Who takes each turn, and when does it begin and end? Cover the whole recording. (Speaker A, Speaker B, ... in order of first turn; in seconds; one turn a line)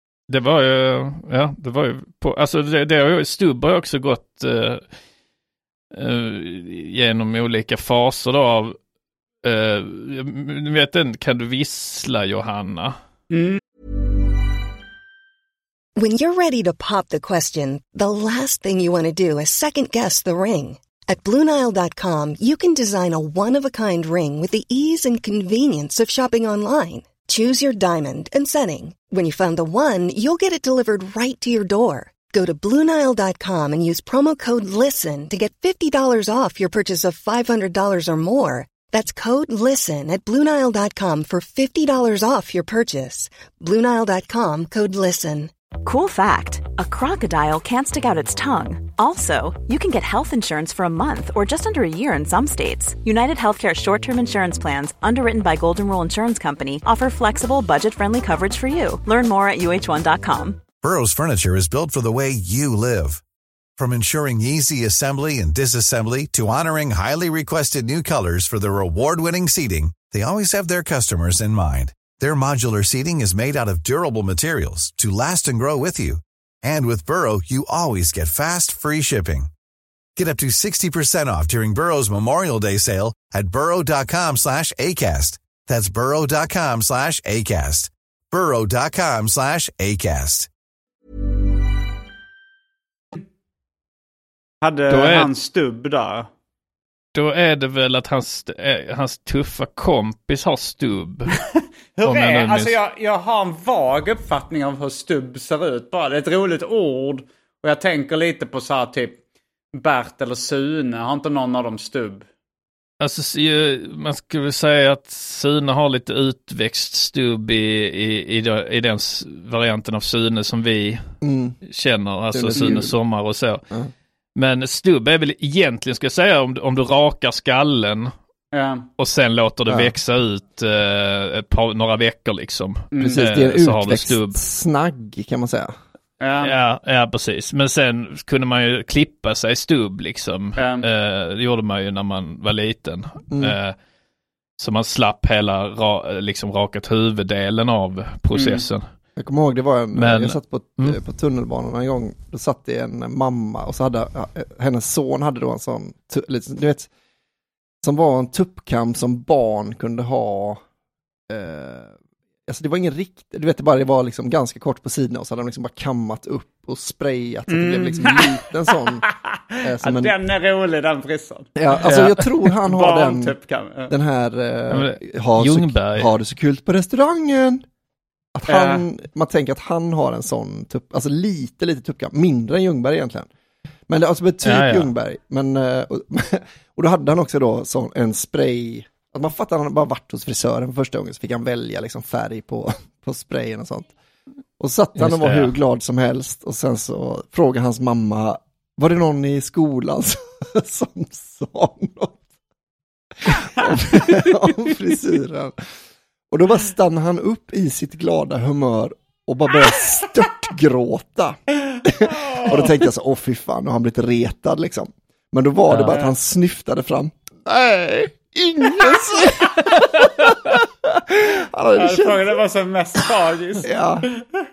Speaker A: 0.3-4.8
Speaker A: 5.9-8.8
Speaker A: 9.4-12.9
Speaker B: 13.3-13.6
Speaker C: 16.0-45.5
Speaker D: 45.8-60.6
Speaker E: 60.8-63.2
Speaker E: 63.8-79.5
Speaker E: 80.2-90.5
Speaker B: 94.6-96.3
Speaker A: 94.9-95.3
Speaker A: 97.1-101.3
Speaker B: 102.0-109.2
Speaker A: 102.0-102.7
Speaker B: 109.7-112.2
Speaker A: 113.0-121.0
Speaker F: 121.2-121.6
Speaker A: 121.7-123.6
Speaker F: 122.3-122.9
Speaker A: 124.3-128.1
Speaker B: 128.5-128.9
Speaker A: 129.0-134.4
Speaker F: 129.7-129.9
Speaker B: 132.9-133.2
Speaker F: 133.0-135.7
Speaker B: 136.2-136.5
Speaker A: 136.4-143.7
Speaker B: 140.6-140.8
Speaker F: 143.3-143.6
Speaker A: 144.6-148.8
Speaker B: 148.3-148.6
Speaker F: 149.2-156.9
Speaker A: 149.9-151.0
Speaker F: 157.8-160.6
Speaker F: 161.3-161.9
Speaker F: 162.5-169.0
Speaker B: 167.5-168.4
Speaker B: 169.1-171.5
Speaker F: 169.6-170.1
Speaker F: 171.6-173.3
Speaker A: 171.8-172.3
Speaker B: 172.7-173.9
Speaker F: 173.9-177.6
Speaker A: 174.7-176.1
Speaker F: 178.3-183.3
Speaker B: 178.5-178.8
Speaker F: 183.9-193.9
Speaker A: 184.4-184.9
Speaker F: 194.6-202.2
Speaker A: 195.0-195.5
Speaker F: 203.2-205.6
Speaker F: 206.3-222.3
Speaker B: 212.1-212.7
Speaker B: 221.8-223.7
Speaker F: 223.6-224.1